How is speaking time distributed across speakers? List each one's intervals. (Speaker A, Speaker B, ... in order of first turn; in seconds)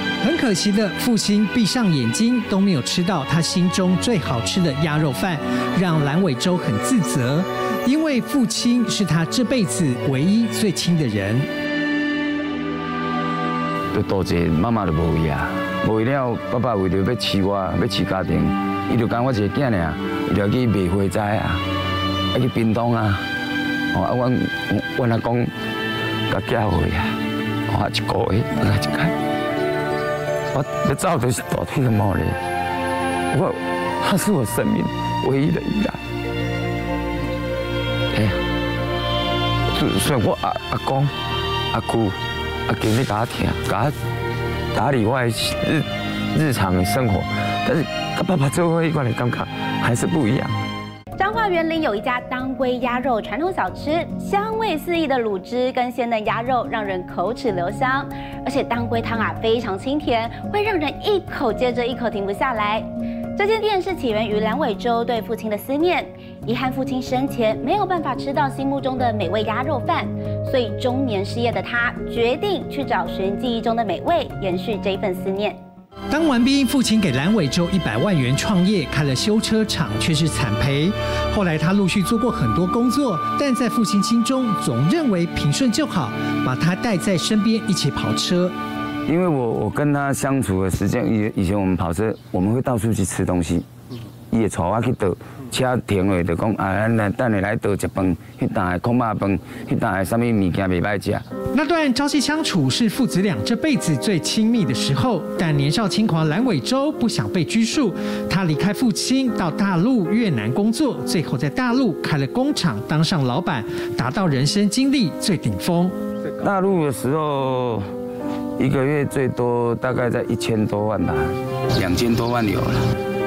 Speaker A: 0.2-11.5, 76.1-88.6, 101.5-116.0
Speaker B: 13.9-21.6, 22.3-23.2, 23.9-25.5, 26.3-27.1, 27.7-29.1, 30.5-32.4, 33.3-36.0, 39.7-41.1, 41.7-42.2, 42.7-44.0, 44.7-50.5, 89.1-93.7, 94.3-101.2, 116.4-117.9, 118.6-122.8
Speaker C: 51.2-75.6